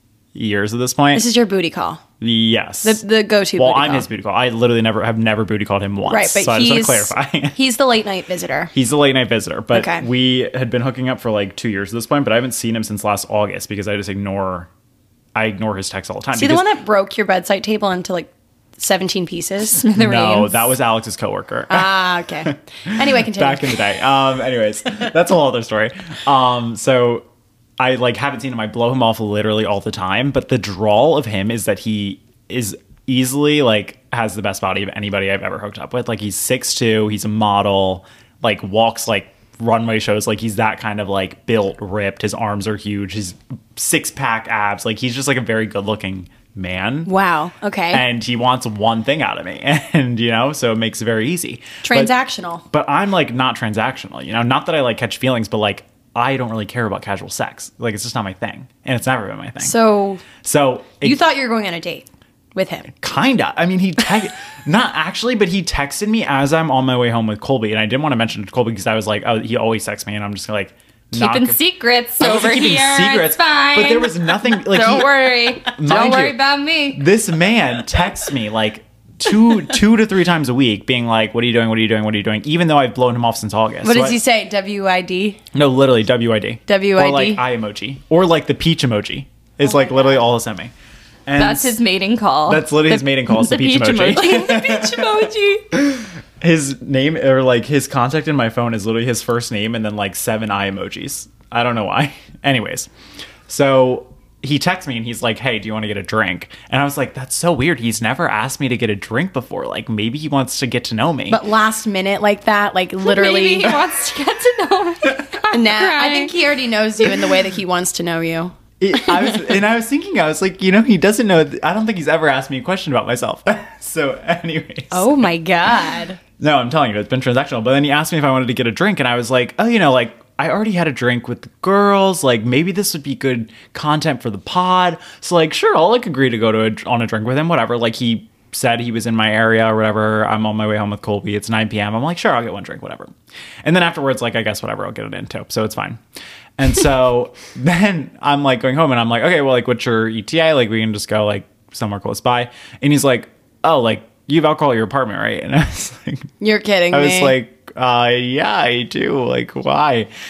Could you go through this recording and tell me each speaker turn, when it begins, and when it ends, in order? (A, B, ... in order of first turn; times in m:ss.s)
0:00.3-0:01.3 A
0:01.1-0:02.0 B
0:02.2-0:03.0 A
0:02.8-0:04.1 B
0:03.6-0:07.6 A
0:06.1-0:08.7 B
0:08.7-0:14.7 A
0:09.7-0:10.1 B
0:15.4-0:16.7 A
0:16.4-0:19.9 B
0:19.8-0:20.6 C
0:19.9-0:21.9 A
0:21.7-0:23.8 B
0:22.5-0:27.2 A
0:27.8-0:47.1 A
0:47.1-0:48.0 B
0:47.9-0:52.1 A
0:51.8-0:52.6 B
0:52.7-0:59.8 A
0:59.6-1:00.3 B
1:00.4-1:01.2 A
1:01.0-1:02.9 B
1:03.0-1:11.6 A
1:11.1-1:17.0 C
1:12.2-1:16.4 A
1:16.9-1:24.2 A
1:23.8-1:25.4 B
1:25.5-1:30.7 A
1:26.7-1:27.4 B
1:31.3-1:31.8 A
1:31.4-1:34.6 C
1:32.5-1:42.9 A
1:34.2-1:35.7 B
1:43.5-1:51.4 A
1:51.3-1:53.8 B
1:53.0-1:56.3 C
1:55.5-1:59.4 B
1:58.8-2:05.2 A
2:04.9-2:06.2 B
2:06.4-2:23.1 A
2:23.6-2:26.0 A
2:26.6-2:36.3 A
2:36.4-2:37.4 B
2:36.9-2:40.1 A